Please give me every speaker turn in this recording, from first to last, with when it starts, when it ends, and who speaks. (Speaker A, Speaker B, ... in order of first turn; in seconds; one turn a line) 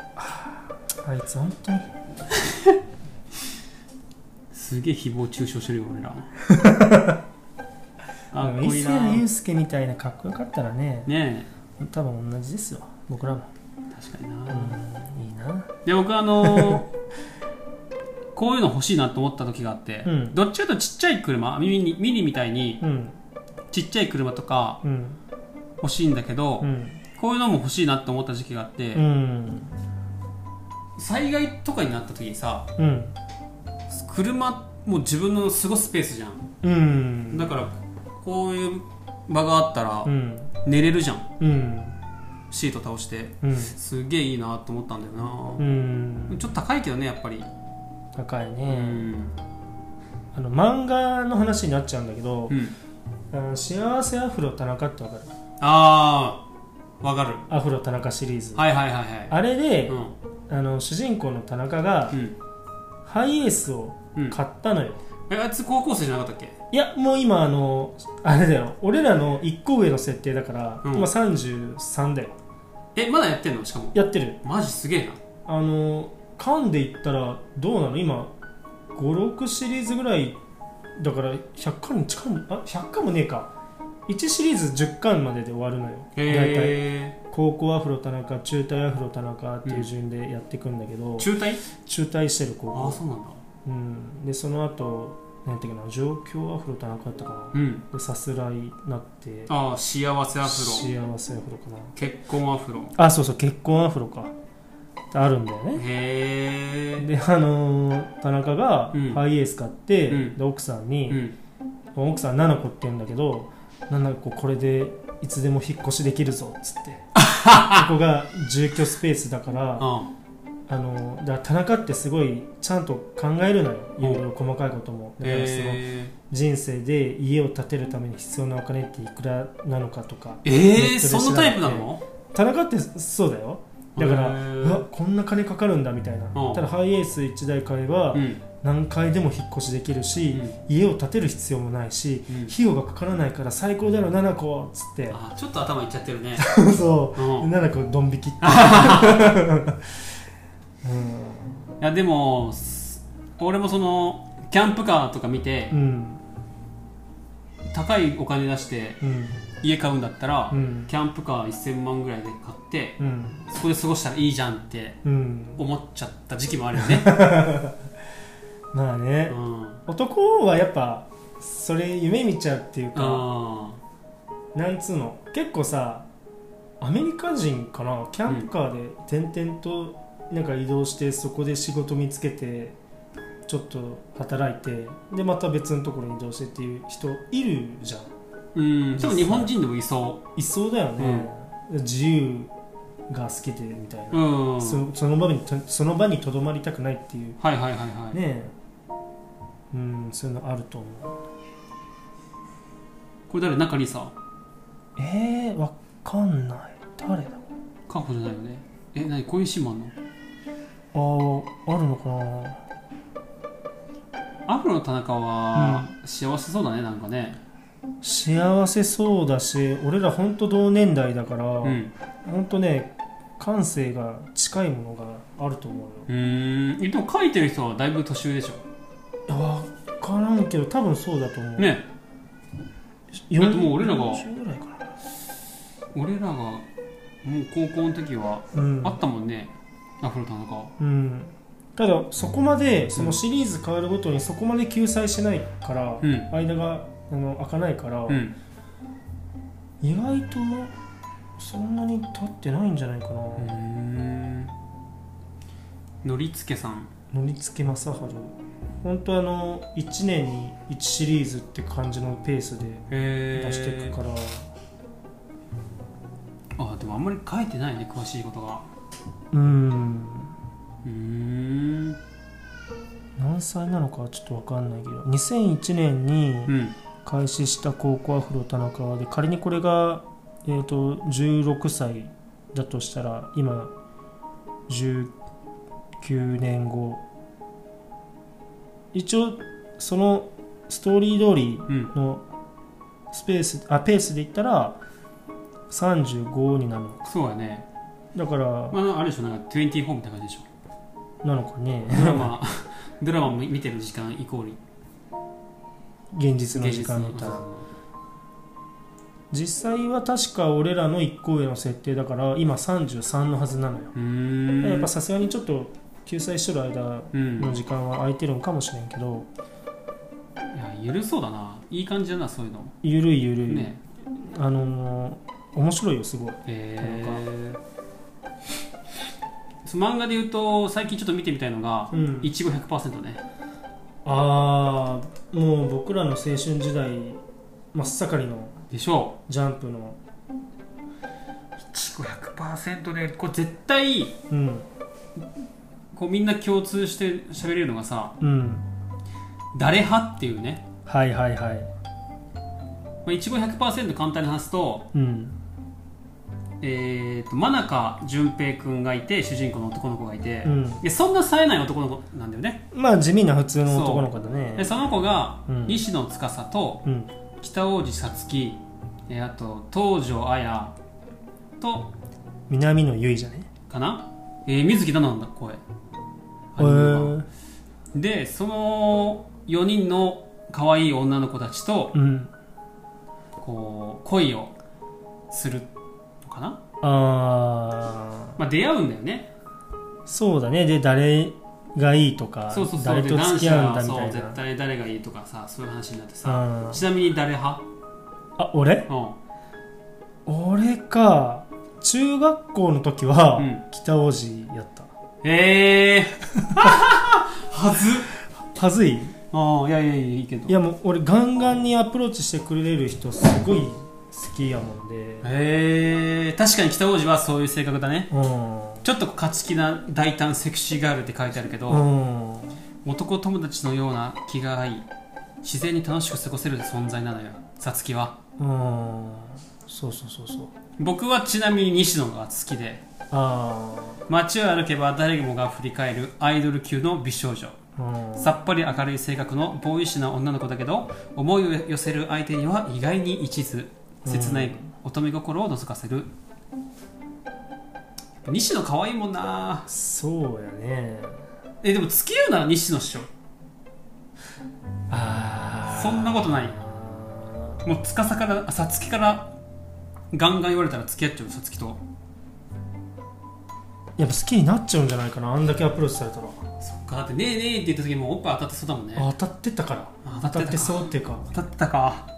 Speaker A: 0.1-1.9
Speaker B: 2.3-2.8
Speaker B: 4.5-6.3
Speaker A: 6.4-7.2
Speaker B: 8.3-9.2
Speaker A: 8.3-11.1
Speaker B: 11.1-11.5
Speaker A: 11.8-13.5
Speaker B: 13.9-14.8
Speaker A: 14.5-15.7
Speaker B: 15.8-16.9
Speaker A: 16.4-16.8
Speaker B: 18.3-22.8
Speaker A: 20.0-20.4
Speaker A: 22.8-23.2
Speaker B: 23.7-24.8
Speaker A: 24.8-25.2
Speaker B: 25.8-29.0
Speaker A: 26.6-27.0
Speaker A: 28.9-29.7
Speaker B: 31.0-32.7
Speaker A: 32.8-33.1
Speaker B: 33.9-36.5
Speaker A: 36.6-37.5
Speaker B: 37.3-40.1
Speaker A: 40.0-40.5
Speaker B: 40.6-41.3
Speaker A: 41.4-42.0
Speaker B: 42.5-45.6
Speaker A: 43.4-43.7
Speaker A: 45.6-46.4
Speaker B: 46.3-47.5
Speaker A: 48.1-49.0
Speaker B: 48.7-49.3
Speaker A: 50.3-52.6
Speaker B: 52.5-52.7
Speaker A: 53.3-55.3
Speaker B: 55.6-56.4
Speaker B: 57.0-57.5
Speaker A: 57.5-58.6
Speaker B: 58.5-60.1
Speaker A: 59.3-60.0
Speaker A: 60.5-62.2
Speaker B: 62.1-62.4
Speaker A: 63.0-65.0
Speaker B: 65.3-66.6
Speaker A: 66.7-72.3
Speaker B: 70.8-71.1
Speaker B: 72.9-75.2
Speaker A: 73.9-74.4
Speaker A: 75.5-78.3
Speaker A: 78.9-80.4
Speaker A: 81.0-83.5
Speaker A: 84.1-93.0
Speaker B: 86.2-87.2
Speaker B: 91.2-91.6
Speaker B: 92.7-93.4
Speaker A: 93.6-99.5
Speaker B: 97.5-97.8
Speaker B: 99.5-100.9
Speaker A: 100.4-101.9
Speaker B: 101.9-102.9
Speaker A: 102.9-104.3
Speaker A: 105.1-105.8
Speaker B: 105.7-107.0
Speaker A: 107.0-111.2
Speaker B: 108.9-109.2
Speaker B: 110.1-110.3
Speaker B: 111.1-111.3
Speaker A: 111.9-119.9
Speaker B: 117.2-117.9
Speaker B: 119.8-120.1
Speaker A: 120.7-145.2
Speaker B: 125.2-126.1
Speaker B: 130.4-132.0
Speaker B: 133.9-134.8
Speaker B: 136.3-136.6
Speaker B: 138.1-138.4
Speaker B: 140.3-140.6
Speaker B: 145.1-146.5
Speaker A: 146.4-150.0
Speaker B: 147.2-147.5
Speaker B: 148.4-149.4
Speaker A: 150.8-151.7
Speaker B: 151.8-155.7
Speaker A: 155.7-156.2
Speaker B: 157.7-159.0
Speaker A: 159.0-159.4
Speaker B: 159.6-165.0
Speaker A: 160.5-160.9
Speaker A: 163.0-163.4
Speaker A: 165.0-165.6
Speaker B: 165.6-167.2
Speaker A: 166.8-167.8
Speaker A: 168.7-173.2
Speaker B: 169.3-169.8
Speaker B: 172.9-173.8
Speaker A: 174.5-176.1
Speaker A: 176.8-182.8
Speaker A: 183.4-188.1
Speaker B: 188.5-190.2
Speaker A: 188.9-189.5
Speaker A: 190.3-192.5
Speaker B: 191.0-191.3
Speaker A: 193.1-197.4
Speaker B: 194.1-194.8
Speaker B: 197.4-198.2
Speaker A: 198.1-198.5
Speaker A: 199.7-201.2
Speaker B: 203.3-204.1
Speaker A: 205.0-207.4
Speaker B: 207.9-209.9
Speaker A: 210.9-212.6
Speaker B: 214.5-217.4
Speaker A: 215.5-215.9
Speaker A: 218.0-226.1
Speaker B: 221.6-221.9
Speaker B: 226.1-228.6
Speaker A: 229.3-231.7
Speaker B: 231.6-231.8
Speaker A: 233.3-234.9
Speaker B: 233.4-234.2
Speaker B: 235.9-236.6
Speaker B: 237.2-240.7
Speaker A: 238.5-239.0
Speaker A: 240.8-248.2
Speaker B: 246.0-246.3
Speaker B: 248.1-248.3
Speaker A: 249.8-250.7
Speaker A: 251.4-253.5
Speaker B: 253.4-254.5
Speaker B: 256.0-256.9
Speaker A: 257.1-264.5
Speaker B: 262.9-263.9
Speaker B: 266.6-268.6
Speaker A: 269.3-270.3
Speaker B: 270.8-272.0
Speaker A: 273.2-276.5
Speaker B: 276.5-276.7
Speaker A: 277.0-283.7
Speaker A: 284.7-285.1
Speaker A: 286.0-287.0
Speaker A: 288.9-292.2
Speaker A: 293.1-294.8
Speaker A: 295.7-297.0
Speaker B: 297.0-297.6
Speaker A: 298.1-298.8
Speaker B: 298.7-300.5
Speaker A: 301.2-302.3
Speaker B: 301.9-304.6
Speaker A: 306.1-307.4
Speaker B: 306.5-307.6
Speaker A: 309.3-313.9
Speaker B: 313.9-314.9
Speaker A: 314.6-319.3
Speaker B: 317.1-317.6
Speaker B: 320.5-322.7
Speaker A: 322.8-327.2
Speaker B: 323.5-323.8
Speaker B: 326.4-327.6
Speaker B: 329.6-333.2
Speaker A: 331.9-332.3
Speaker A: 334.0-337.2
Speaker A: 337.7-338.5
Speaker B: 338.7-339.2
Speaker A: 339.3-340.0
Speaker B: 341.6-344.2
Speaker A: 344.3-344.7
Speaker B: 345.9-348.1
Speaker A: 348.2-348.6
Speaker B: 349.5-350.6
Speaker A: 350.9-351.7
Speaker B: 353.0-354.9
Speaker A: 354.9-355.4
Speaker B: 356.6-362.6
Speaker A: 360.4-360.8
Speaker A: 362.7-364.8
Speaker B: 363.7-366.8
Speaker A: 365.5-365.8
Speaker A: 366.8-367.1
Speaker B: 367.4-370.7
Speaker B: 371.6-371.9
Speaker A: 372.5-373.5
Speaker B: 373.7-375.6
Speaker B: 376.5-377.2
Speaker A: 376.6-377.3
Speaker B: 377.9-381.9
Speaker A: 381.9-382.3
Speaker B: 383.4-384.5
Speaker B: 385.3-385.7
Speaker B: 386.2-386.6
Speaker A: 386.8-388.4
Speaker B: 388.4-389.3
Speaker A: 390.1-394.4
Speaker B: 392.5-397.6
Speaker A: 396.2-396.8
Speaker A: 398.4-398.9
Speaker B: 398.9-399.2
Speaker A: 400.2-404.9
Speaker B: 403.4-403.6
Speaker B: 405.2-408.1
Speaker A: 406.4-406.7
Speaker A: 408.3-409.1
Speaker B: 409.3-410.6
Speaker A: 410.5-415.3
Speaker B: 415.2-418.1
Speaker A: 418.1-418.9
Speaker B: 418.8-421.9
Speaker A: 421.7-422.6
Speaker B: 422.8-424.9
Speaker B: 425.4-428.2
Speaker A: 428.4-430.5
Speaker B: 430.8-432.8
Speaker A: 433.1-434.0
Speaker B: 434.1-437.6
Speaker A: 437.8-438.3
Speaker B: 438.1-446.1
Speaker A: 444.0-444.7
Speaker B: 448.2-449.7
Speaker A: 449.7-451.2
Speaker B: 451.6-453.1
Speaker A: 454.9-457.6
Speaker B: 455.7-456.6
Speaker B: 457.6-459.3
Speaker B: 460.1-461.8
Speaker A: 464.0-466.5
Speaker B: 466.6-469.1
Speaker A: 468.9-471.3
Speaker B: 470.0-472.1